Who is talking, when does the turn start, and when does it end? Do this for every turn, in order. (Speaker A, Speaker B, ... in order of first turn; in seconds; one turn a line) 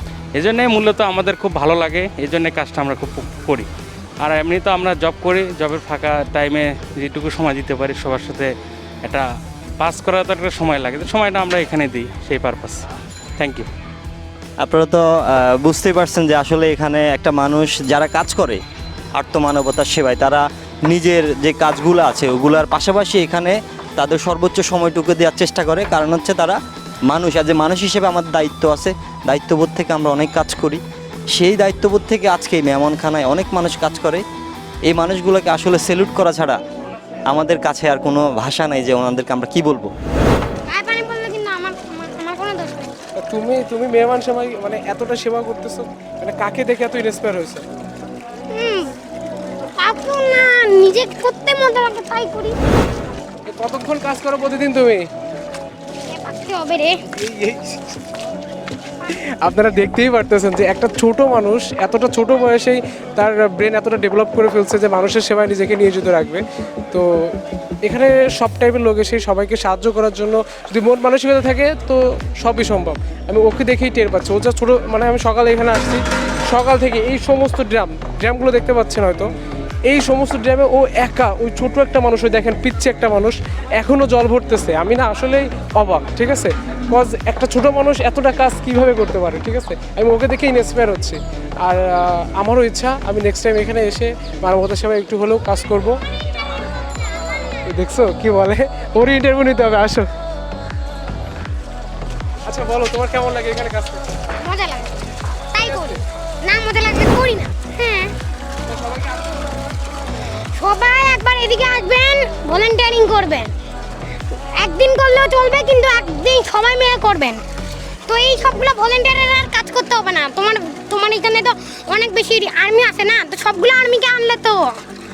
Speaker A: 0.3-3.7
Speaker A: 4.2-8.5
Speaker A: 9.0-12.8
Speaker A: 13.4-13.7
Speaker B: 14.6-18.6
Speaker B: 19.1-26.6
Speaker B: 27.1-30.8
Speaker B: 31.3-34.2
Speaker B: 34.9-36.6
Speaker B: 37.3-39.9
Speaker C: 40.7-42.9
Speaker D: 43.2-47.6
Speaker C: 48.5-48.9
Speaker C: 49.8-52.5
Speaker D: 53.5-55.1
Speaker C: 56.1-57.0
Speaker D: 57.2-57.9
Speaker D: 59.1-79.3
Speaker D: 79.9-96.0
Speaker D: 97.7-100.1
Speaker D: 102.5-104.0
Speaker C: 104.4-104.9
Speaker C: 105.5-108.1
Speaker D: 105.6-106.0
Speaker D: 108.7-109.3
Speaker C: 110.6-113.5
Speaker C: 114.6-117.4
Speaker C: 118.1-124.6